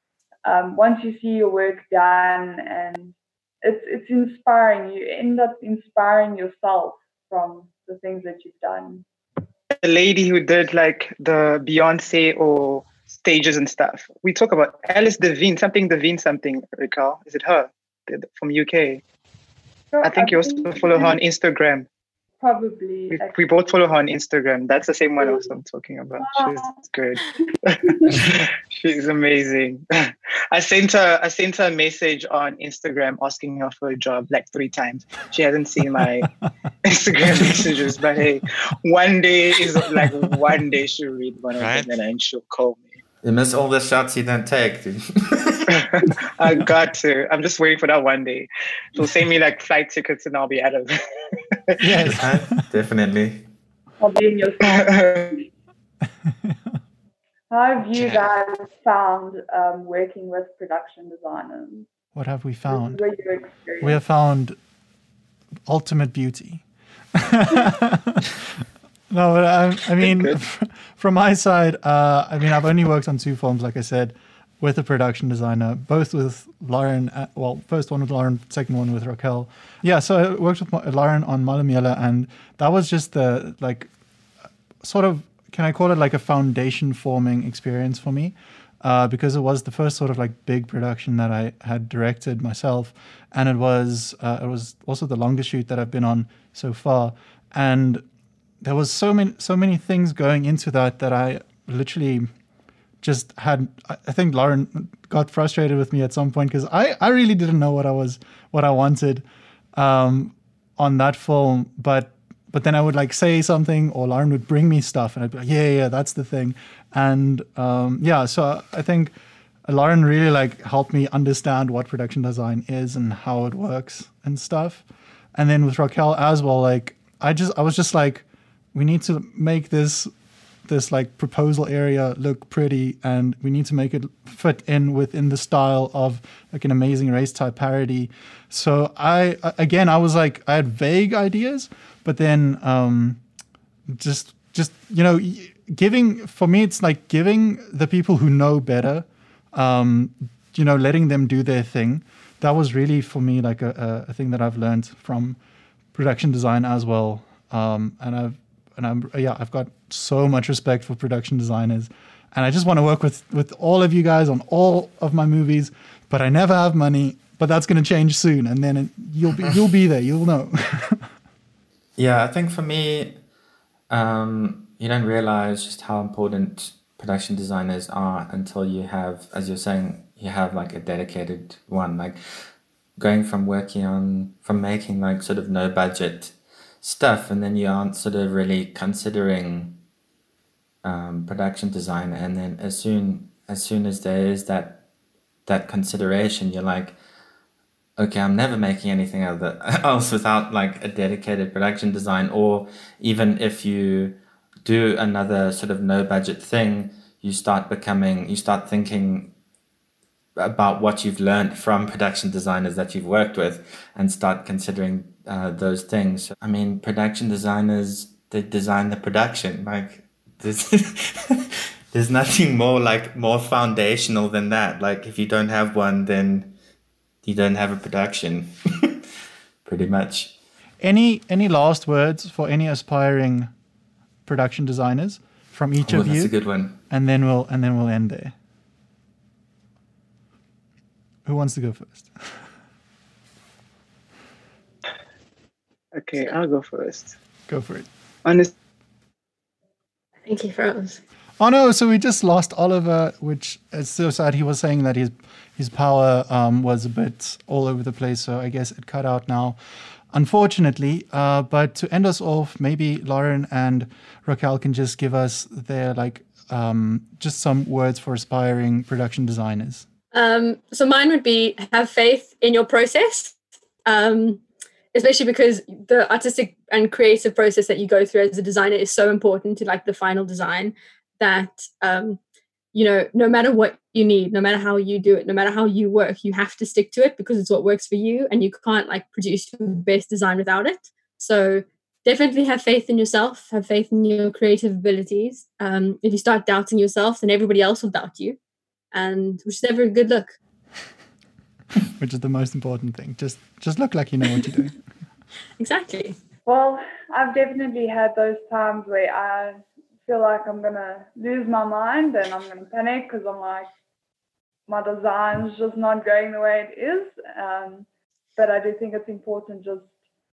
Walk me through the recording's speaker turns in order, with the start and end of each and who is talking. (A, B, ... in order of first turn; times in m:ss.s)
0:00.4-0:09.0 A
0:09.8-0:19.0 B
0:19.9-0:21.2 A
0:20.0-0:21.8 B
0:22.4-0:23.4 A
0:23.1-0:36.3 B
0:26.2-0:26.7 A
0:27.8-0:28.3 A
0:36.8-0:42.9 B
0:41.6-0:41.9 C
0:43.2-0:45.7 C
0:45.7-0:51.8 B
0:51.8-0:52.7 D
0:52.0-0:53.4 C
0:54.0-0:55.4 A
0:54.6-0:55.4 B
0:56.2-0:56.8 D
0:57.5-1:01.9 A
0:58.0-0:58.2 C
1:02.1-1:03.0 D
1:02.7-1:04.0 A
1:03.8-1:04.6 D
1:05.6-1:08.6 D
1:09.1-1:23.9 D
1:24.8-1:38.0 D
1:38.6-1:42.3 D
1:43.0-1:59.1 D
1:59.6-2:04.8 D
2:05.3-2:10.1 D
2:10.6-2:23.2 D
2:23.9-2:35.4 D
2:35.9-2:51.1 D
2:52.0-2:53.2 C
2:53.9-3:02.2 C
3:03.0-3:09.8 C
3:10.8-3:14.8 C
3:15.4-3:17.0 C
3:18.0-3:29.3 C
3:30.4-3:46.5 C
3:47.2-3:49.0 C
3:49.6-3:50.3 C
3:50.8-3:53.5 D
3:54.2-3:56.3 D
3:55.8-3:56.8 C
3:56.9-3:58.3 D
4:01.2-4:02.4 D
4:05.9-4:07.2 B
4:07.5-4:07.9 D
4:08.2-4:08.5 B
4:10.2-4:11.0 E
4:11.4-4:19.6 D
4:20.1-4:29.8 D
4:30.1-4:34.4 E
4:34.9-4:42.2 E
4:42.7-4:58.4 E
4:58.9-5:00.4 E
5:02.0-5:04.7 D
5:05.6-5:06.2 E
5:06.4-5:13.7 A
5:14.7-5:19.9 A